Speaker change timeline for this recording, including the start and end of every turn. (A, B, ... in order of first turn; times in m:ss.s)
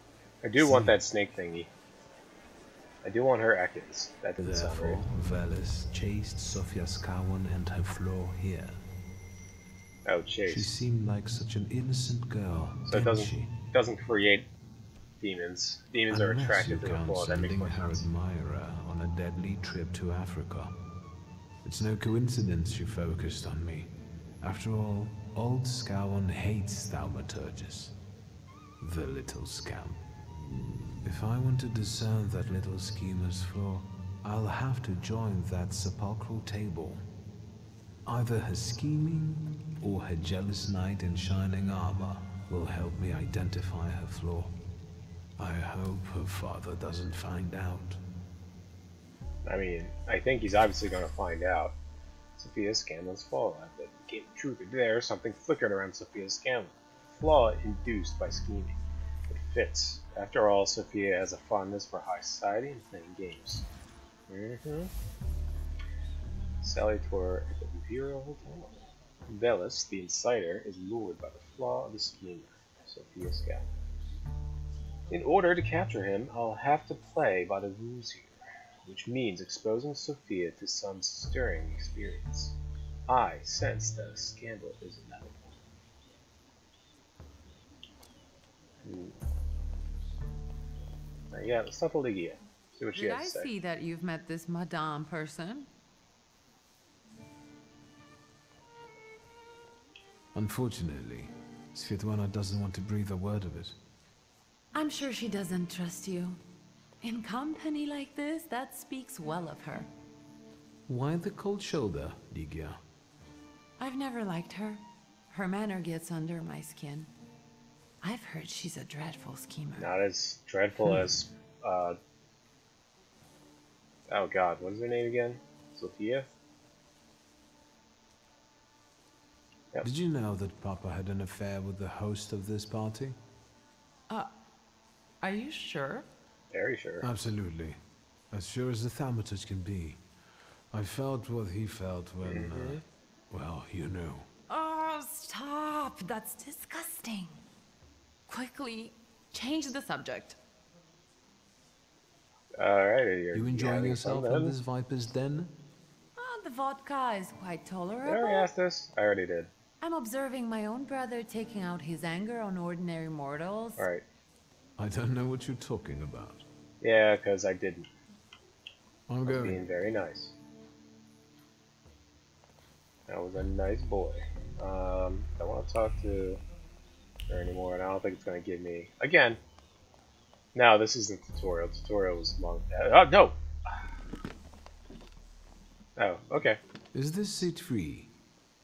0:00.4-0:01.7 A
0:00.6-0:00.9 B
0:03.0-0:05.0 A
0:04.4-0:08.8 B
0:10.0-0:10.7 A
0:10.5-0:13.5 B
0:12.9-0:14.5 A
0:15.2-0:18.0 A
0:16.1-0:20.7 B
0:21.6-0:23.9 B
0:24.4-0:27.9 B
0:28.8-0:30.0 B
0:31.0-0:37.0 B
0:38.0-0:44.5 B
0:45.4-0:48.0 B
0:49.4-0:51.8 A
0:52.4-0:58.8 A
0:59.3-1:03.6 A
1:04.3-1:04.9 A
1:06.6-1:13.7 A
1:15.1-1:22.6 A
1:23.1-1:25.5 A
1:28.8-1:29.2 A
1:31.3-1:33.5 A
1:32.9-1:35.7 C
1:40.3-1:43.8 B
1:44.7-1:46.4 C
1:47.0-1:49.9 C
1:50.9-1:52.8 B
1:53.8-1:57.1 C
1:58.0-1:59.9 C
1:59.8-2:02.0 A
2:04.1-2:06.3 A
2:09.8-2:13.2 B
2:15.2-2:16.1 C
2:16.5-2:17.1 A
2:17.0-2:17.8 B
2:18.3-2:20.0 B
2:20.7-2:24.3 B
2:22.2-2:22.8 A
2:24.5-2:27.4 C
2:28.3-2:30.4 C
2:32.6-2:34.5 A
2:33.3-2:35.6 B
2:36.2-2:38.5 C
2:38.0-2:39.5 A
2:39.8-2:43.8 C
2:43.8-2:44.0 A
2:44.8-2:46.4 B
2:46.8-2:47.9 A
2:49.1-2:49.6 B
2:49.2-2:50.3 A
2:53.1-2:56.4 A
2:57.3-2:59.4 A
3:00.5-3:03.8 A
3:06.0-3:06.6 A
3:06.9-3:08.1 B